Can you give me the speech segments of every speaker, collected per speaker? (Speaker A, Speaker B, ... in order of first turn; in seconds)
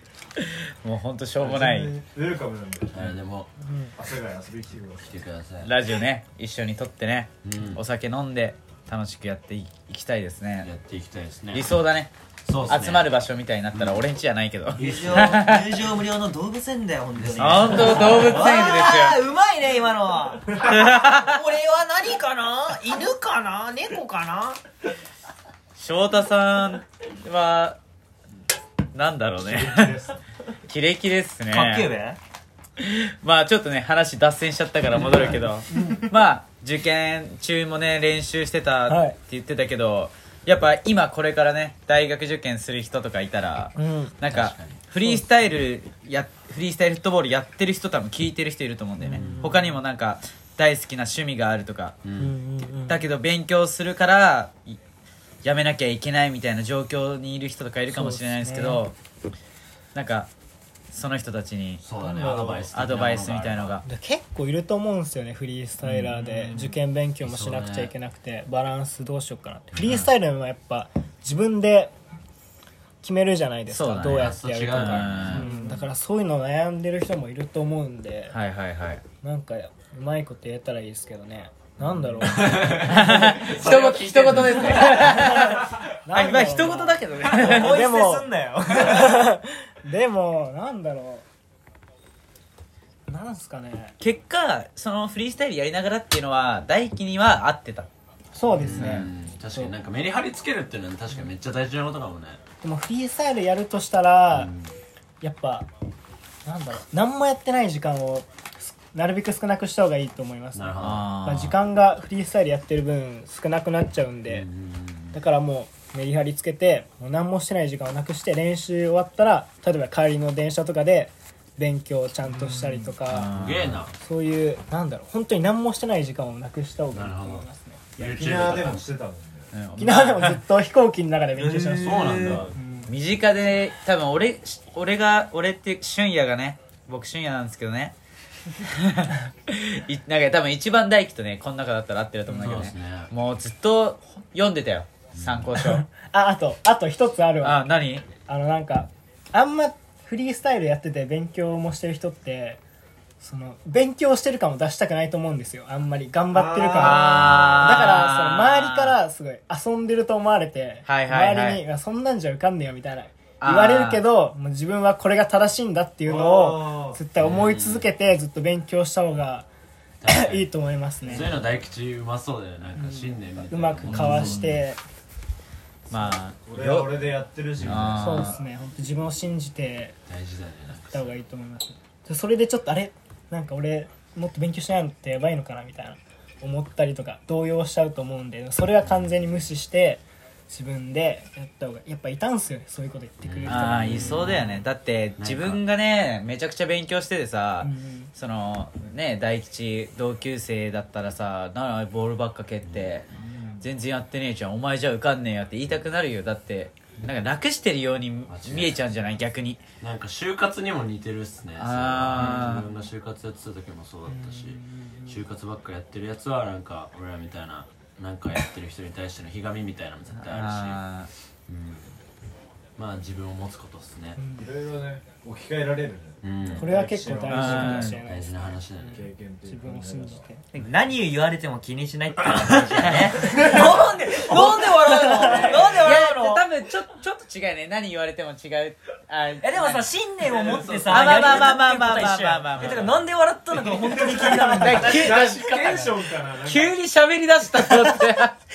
Speaker A: 0.4-2.0, 5.6-10.7, 11.5-12.1, 12.7-15.7, 17.4-19.2, 20.6-21.4, 25.8-27.8, 28.9-30.0, 30.7-31.9, 32.8-52.0, 52.9-54.8, 55.4-59.0, 60.0-60.3, 60.9-63.9, 65.9-66.6, 73.7-75.7, 78.3-79.0, 82.4-87.9, 94.0-97.9, 98.7-99.0, 110.8-111.6, 123.0-123.8, 129.5-130.4, 132.9-137.9, 138.6-145.9, 147.4-148.1, 156.8-159.0, 160.9-161.6, 163.4-164.1, 173.9-174.6, 175.9-177.0, 177.6-178.4, 193.5-203.1, 203.6-209.6, 211.6-212.7, 220.2-221.1, 227.3-228.0, 232.8-233.1, 235.0-239.9, 240.8-243.0, 244.4-245.9, 246.4-248.4
Speaker B: 1.4-3.1, 4.0-5.2, 29.4-30.2, 62.2-62.7, 128.0-129.5, 131.4-132.5, 156.3-157.5, 166.1-167.0, 176.5-178.4, 224.4-227.9, 228.9-230.2, 233.2-233.8, 235.3-235.7, 243.7-246.8
Speaker C: 2.9-3.5, 5.0-5.7, 7.4-7.8, 10.6-11.8, 12.5-13.1, 13.7-14.1, 14.7-15.4, 17.1-18.4, 44.3-44.8, 49.1-49.6, 52.0-52.3, 61.8-63.8, 66.4-66.7, 67.2-67.9, 69.8-70.1, 74.1-75.5, 82.2-85.2, 98.6-102.4, 104.3-104.8, 110.5-111.1, 114.3-115.2, 123.3-123.9, 126.9-127.5, 128.0-128.9, 131.8-132.6, 142.3-143.1, 145.1-145.6, 167.2-167.9, 170.0-170.5, 171.0-174.4, 177.6-178.1, 180.1-181.1, 193.2-194.6, 195.2-195.6, 202.6-203.1, 208.3-208.8, 209.8-220.8, 221.5-222.0, 222.8-224.2, 226.2-226.8, 227.6-229.1, 240.2-241.5, 242.6-243.0
Speaker D: 3.6-3.9, 35.7-36.0, 38.9-39.2, 43.8-44.2, 49.0-49.7, 52.2-53.0, 57.9-58.8, 62.0-62.4, 63.9-71.9, 73.0-78.4, 79.2-83.5, 85.1-85.5, 86.0-91.3, 93.1-94.0, 98.3-99.7, 102.6-104.5, 105.2-105.7, 106.5-114.5, 115.1-123.3, 124.0-127.8, 129.8-132.9, 145.9-152.6, 153.2-169.5, 170.1-171.4, 172.8-174.8, 178.0-180.0, 180.9-194.4, 197.6-198.1, 214.6-215.1, 224.2-224.4, 226.6-228.6, 229.4-230.4
Speaker E: 14.8-24.6, 31.5-32.2, 83.9-84.2, 87.3-89.2, 230.5-236.5, 239.4-245.3